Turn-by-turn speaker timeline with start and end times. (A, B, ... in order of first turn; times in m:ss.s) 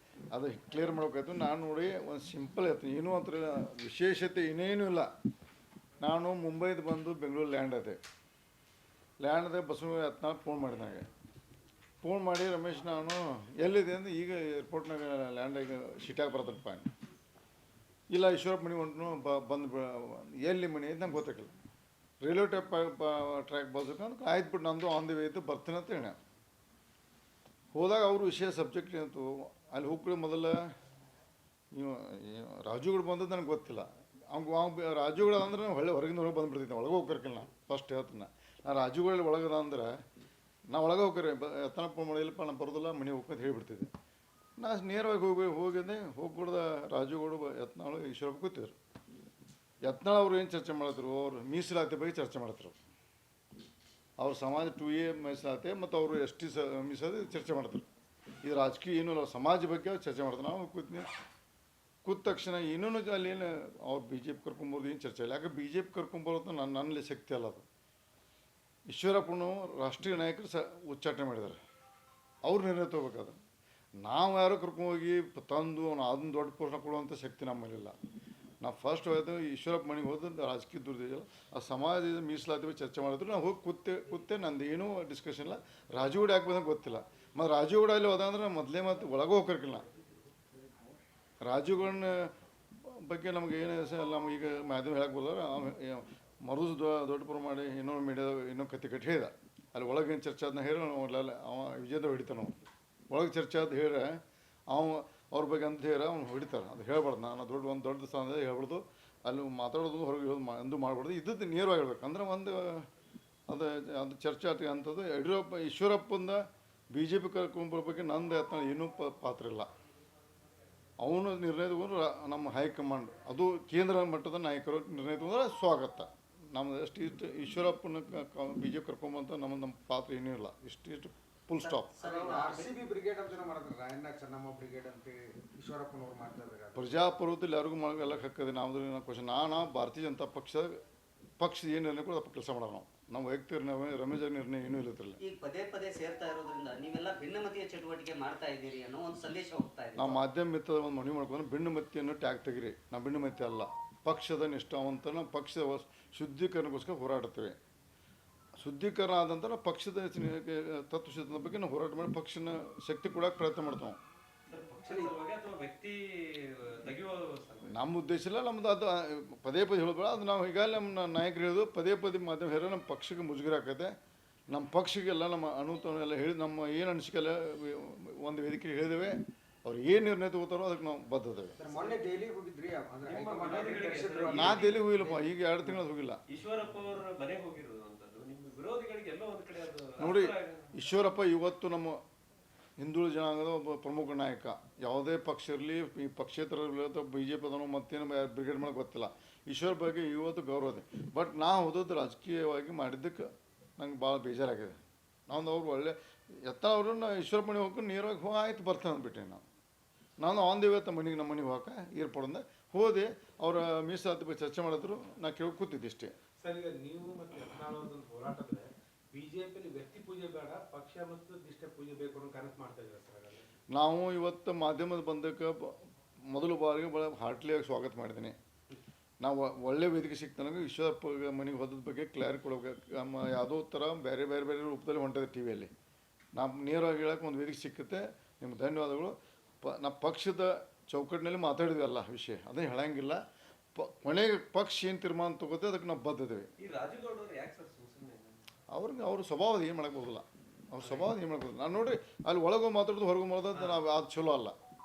0:00.3-0:05.1 A
0:06.0-0:08.0 A
0:09.2-0:11.1 A
0:12.0-0:16.9 A
0:18.1-0:21.5 A
0:22.2-0:26.2 A
0:27.7-0:30.7 A
0:31.7-0:40.0 A
0:40.7-0:43.9 A
0:44.6-0:48.8 A
0:49.8-0:52.8 A
0:54.2-0:57.8 A
0:58.4-1:01.1 A
1:02.0-1:07.6 A
1:08.9-1:11.6 A
1:12.4-1:13.4 A
1:14.0-1:17.9 A
1:18.6-1:29.8 A
1:31.4-1:42.5 A
1:43.1-1:52.9 A
1:53.5-1:59.7 A
2:01.0-2:11.9 A
2:11.6-2:12.7 B
2:12.0-2:16.8 C
2:16.7-2:20.8 A
2:21.4-2:25.2 A
2:25.2-2:30.2 B
2:30.0-2:37.6 A
2:38.6-2:44.0 A
2:44.5-2:47.7 D
2:44.8-2:45.1 C
2:47.6-2:53.9 A
2:54.5-3:01.6 A
3:01.6-3:05.3 C
3:03.0-3:05.1 D
3:04.3-3:06.2 A
3:06.3-3:10.8 D
3:10.0-3:12.0 A
3:12.8-3:29.4 A
3:30.2-3:36.1 A
3:36.4-3:43.5 E
3:43.7-3:48.4 A
3:49.2-3:55.7 A
3:56.3-4:03.2 A
4:03.7-4:06.5 A
4:06.6-4:08.4 D
4:08.7-4:14.6 A
4:13.5-4:13.8 D